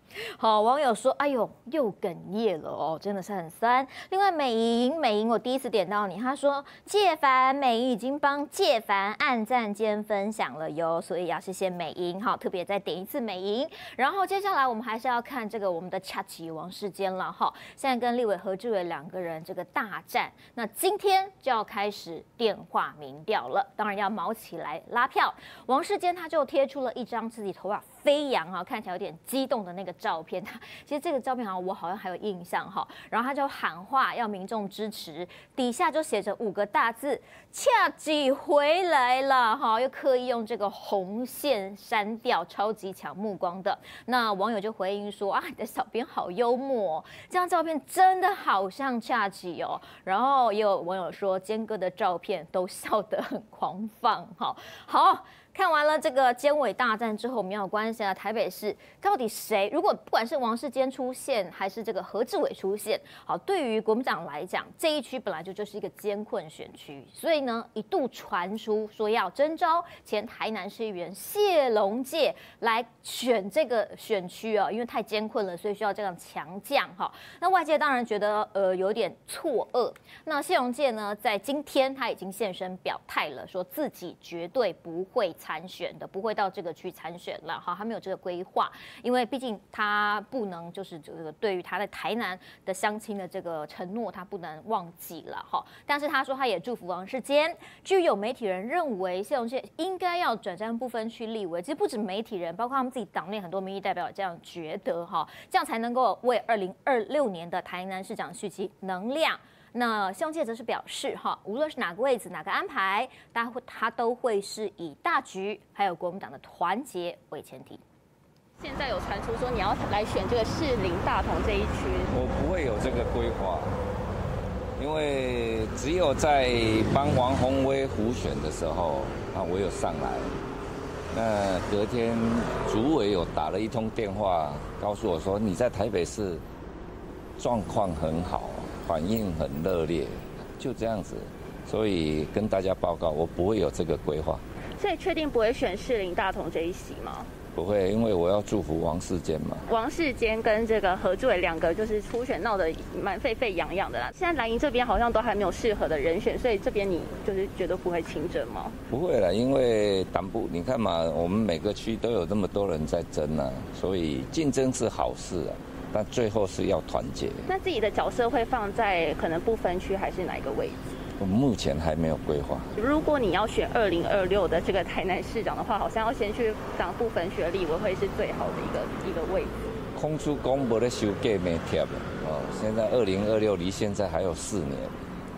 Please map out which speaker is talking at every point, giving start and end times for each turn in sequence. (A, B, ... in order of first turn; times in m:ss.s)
0:00.4-1:57.8 A
1:58.6-2:02.1 B
2:02.1-2:03.7 C
2:04.8-2:10.3 C
2:11.1-2:16.4 C
2:17.4-2:24.4 C
2:24.8-2:27.3 B
2:27.5-2:29.6 C
2:29.7-2:38.7 B
2:38.9-2:47.5 C
2:47.5-2:51.0 B
2:51.2-2:52.7 C
2:52.8-2:59.5 B
2:59.9-3:05.0 C